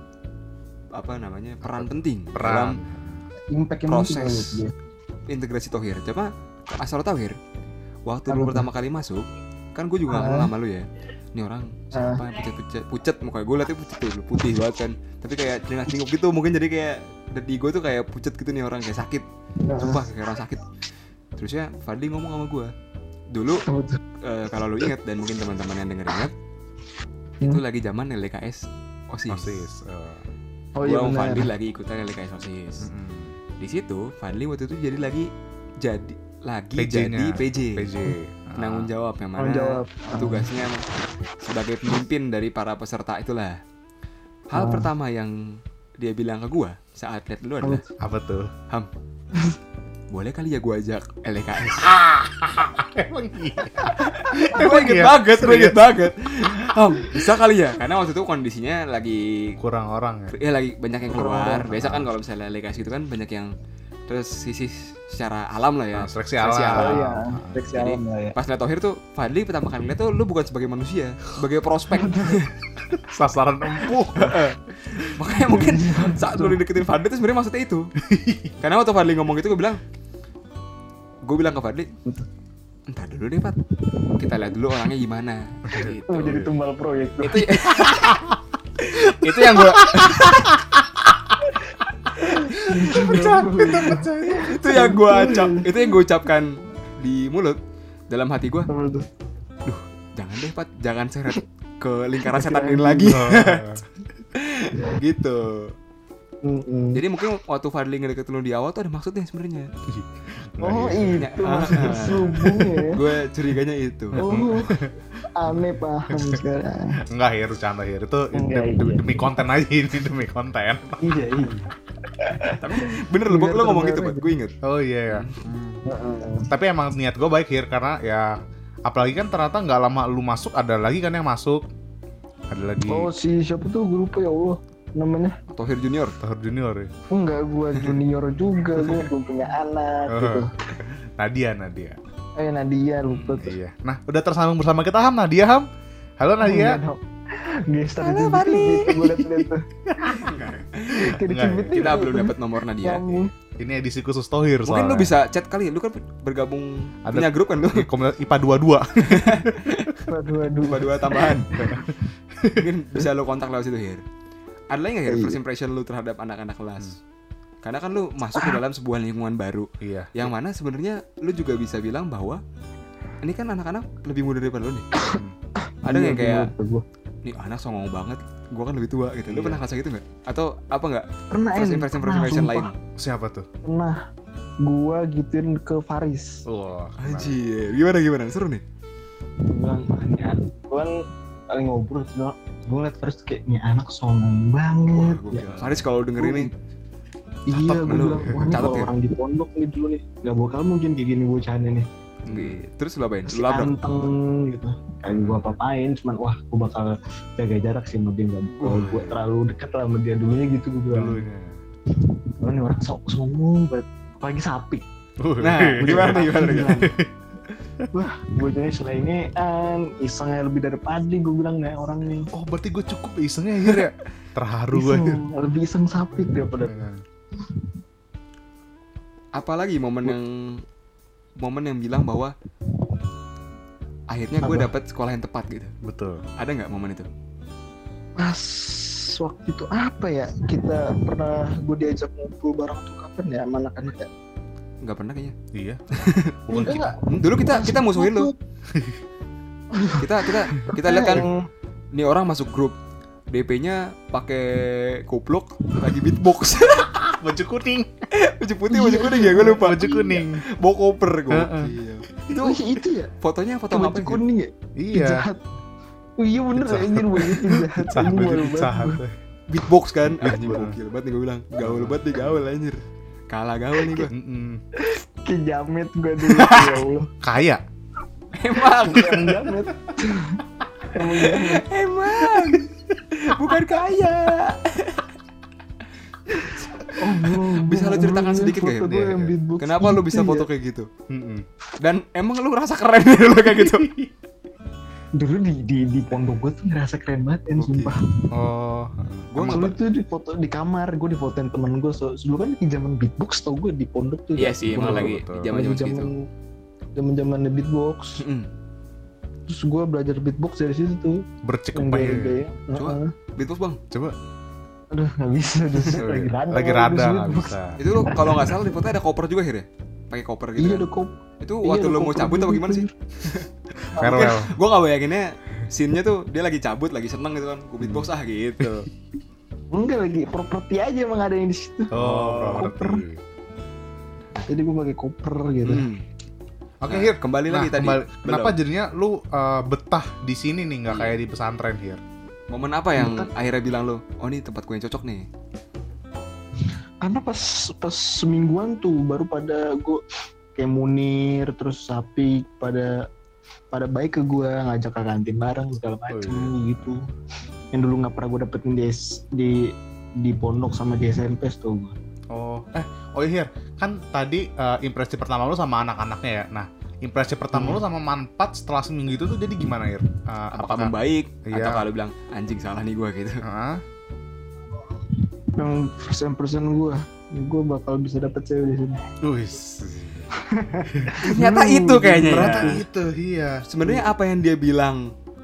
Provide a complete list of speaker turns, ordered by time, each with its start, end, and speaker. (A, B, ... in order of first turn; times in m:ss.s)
0:01.0-0:02.8 A
0:01.6-0:03.3 B
0:03.5-0:04.7 C
0:03.9-0:04.6 A
0:05.3-0:07.4 A
0:08.1-0:20.6 A
0:08.3-0:08.7 C
0:10.1-0:10.5 C
0:11.9-0:12.2 C
0:19.6-0:20.0 C
0:21.4-0:22.7 A
0:23.3-0:23.7 A
0:23.7-0:24.0 C
0:24.2-0:26.3 A
0:27.4-0:29.6 A
0:29.3-0:30.2 B
0:30.8-0:31.5 C
0:30.8-0:32.9 A
0:32.8-0:33.4 B
0:33.6-0:35.3 A
0:35.8-0:37.9 A
0:36.8-0:38.9 B
0:38.6-0:40.9 A
0:39.4-0:40.5 C
0:41.4-0:43.6 A
0:44.5-0:47.8 A
0:44.6-0:44.9 C
0:47.6-0:47.9 C
0:48.0-0:48.5 B
0:50.1-0:51.9 A
0:51.6-0:55.8 B
0:54.0-0:59.6 A
0:59.6-1:00.3 B
1:00.3-1:03.5 A
1:01.1-1:01.7 C
1:01.7-1:02.1 B
1:04.1-1:07.0 A
1:06.0-1:07.6 B
1:06.8-1:08.4 C
1:07.7-1:12.5 A
1:11.9-1:12.5 C
1:12.9-1:14.4 B
1:14.2-1:17.9 A
1:15.5-1:16.6 C
1:18.0-1:18.5 B
1:18.6-1:19.8 A
1:21.2-1:21.9 A
1:22.9-1:23.6 A
1:24.2-1:26.5 A
1:25.7-1:26.0 B
1:26.1-1:27.4 C
1:27.2-1:28.2 A
1:27.8-1:28.4 B
1:28.8-1:30.5 A
1:29.2-1:31.4 B
1:32.2-1:34.8 B
1:32.3-1:36.0 C
1:34.4-1:37.6 A
1:38.1-1:38.7 A
1:38.7-1:39.1 C
1:39.6-1:43.8 A
1:42.2-1:43.2 C
1:43.0-1:43.8 B
1:44.3-1:45.7 A
1:46.4-1:47.1 C
1:46.9-1:49.7 A
1:49.9-1:51.2 B
1:50.6-1:53.0 C
1:51.2-1:54.2 A
1:52.3-1:52.6 B
1:54.1-1:55.0 B
1:54.2-1:57.0 C
1:56.1-1:56.4 B
1:57.1-2:01.1 B
1:58.3-1:59.4 C
2:01.0-2:04.3 C
2:02.5-2:04.5 A
2:04.6-2:05.8 B
2:05.1-2:05.4 A
2:05.8-2:06.5 C
2:06.5-2:08.4 B
2:08.9-2:11.7 B
2:12.5-2:13.1 B
2:12.9-2:15.4 C
2:15.5-2:16.2 A
2:16.2-2:16.9 B
2:17.1-2:20.5 C
2:20.1-2:22.0 B
2:22.4-2:23.6 C
2:23.1-2:23.4 A
2:23.4-2:25.7 B
2:26.2-2:26.8 B
2:26.4-2:29.7 C
2:28.0-2:29.4 A
2:29.9-2:30.2 B
2:30.1-2:31.2 A
2:30.9-2:33.3 C
2:31.2-2:31.9 B
2:31.7-2:33.1 A
2:33.6-2:35.1 B
2:34.7-2:37.9 A
2:37.0-2:40.0 B
2:39.1-2:39.9 A
2:40.1-2:41.4 C
2:40.7-2:41.5 A
2:41.6-2:42.6 B
2:42.6-2:44.0 A
2:44.7-2:47.0 A
2:45.1-2:45.4 C
2:47.6-2:52.4 A
2:48.4-2:48.6 C
2:49.8-2:50.3 B
2:53.2-2:54.9 A
2:55.0-2:56.8 C
2:55.1-2:55.4 B
2:55.9-2:56.5 A
2:57.2-3:02.8 A
2:59.3-2:59.6 B
3:01.3-3:02.7 C
3:03.0-3:03.5 B
3:03.6-3:04.0 C
3:04.6-3:06.4 C
3:06.5-3:07.4 B
3:07.0-3:08.6 A
3:09.5-3:11.0 C
3:11.5-3:16.5 C
3:14.9-3:16.5 A
3:17.5-3:21.9 C
3:17.6-3:18.6 B
3:17.9-3:18.9 A
3:22.3-3:22.6 B
3:22.3-3:23.7 A
3:23.3-3:31.2 C
3:25.1-3:25.6 B
3:28.6-3:29.1 A
3:28.7-3:29.2 B
3:30.9-3:31.6 B
3:32.0-3:34.8 C
3:35.2-3:36.2 B
3:35.4-3:36.9 A
3:35.8-3:36.9 C
3:37.9-3:42.3 C
3:42.3-3:45.2 B
3:44.7-3:46.8 C
3:46.6-3:47.0 B
3:47.4-3:47.7 C
3:49.4-3:50.6 A
3:51.4-3:52.3 A
3:54.1-3:55.7 A
3:54.4-3:54.7 C
3:55.8-3:56.2 B
3:56.4-3:57.1 A
3:58.2-4:04.1 C
4:04.8-4:05.4 A
4:05.5-4:05.8 B
4:06.0-4:06.4 A
4:06.5-4:07.0 B
4:06.5-4:08.3 C
4:07.1-4:08.3 A
4:08.7-4:09.0 B
4:09.7-4:10.1 C
4:10.0-4:11.3 A
4:10.6-4:11.4 C
4:11.9-4:12.8 A
4:13.3-4:16.9 A
4:16.8-4:17.9 B
4:18.1-4:22.6 A
4:18.7-4:20.2 C
4:19.4-4:20.4 B
4:21.3-4:21.7 B
4:22.3-4:23.1 C
4:23.2-4:24.2 A
4:23.7-4:25.4 C
4:24.8-4:25.2 B
4:26.2-4:29.0 C
4:26.6-4:29.1 B
4:29.5-4:34.1 A
4:30.2-4:30.8 B
4:31.6-4:32.4 B
4:34.1-4:34.6 B
4:34.8-4:37.1 C
4:36.4-4:37.6 B
4:38.4-4:39.2 A
4:38.5-4:41.7 C
4:39.0-4:39.4 B
4:41.0-4:45.1 A
4:46.4-4:50.5 C
4:46.9-4:50.9 A
4:49.0-4:49.3 B
4:51.1-4:51.5 B
4:51.8-4:53.9 A
4:53.5-4:54.1 B
4:55.1-4:58.0 C
4:57.6-4:58.0 A
4:58.3-4:59.7 B
4:59.3-4:59.8 A
4:59.4-5:06.2 C
5:04.4-5:06.1 A
5:04.8-5:05.5 B
5:07.0-5:08.2 C
5:08.2-5:08.5 A
5:09.5-5:13.1 C
5:11.4-5:12.4 B
5:12.8-5:13.8 A
5:13.9-5:14.2 B
5:14.9-5:17.6 C
5:16.0-5:17.8 B
5:17.8-5:20.9 A
5:20.6-5:22.9 C
5:21.4-5:28.9 A
5:24.0-5:24.4 C
5:24.0-5:24.5 B
5:27.8-5:28.1 B
5:28.6-5:28.9 B
5:29.7-5:33.0 C
5:31.9-5:33.2 B
5:32.0-5:32.7 A
5:34.4-5:35.9 C
5:35.6-5:36.0 A
5:36.8-5:42.0 B
5:36.9-5:38.6 A
5:40.9-5:41.2 A
5:42.5-5:45.3 A
5:43.0-5:43.3 C
5:47.0-5:50.0 C
5:50.6-5:53.0 C
5:53.7-5:57.1 C
5:56.1-5:57.0 B
5:57.7-6:02.0 C
6:02.3-6:11.9 B
6:07.5-6:07.8 C
6:10.5-6:13.4 A
6:13.4-6:13.8 B
6:15.1-6:19.0 C
6:19.2-6:21.2 B
6:20.4-6:22.8 C
6:21.2-6:22.8 A
6:22.3-6:23.6 B
6:23.7-6:25.1 A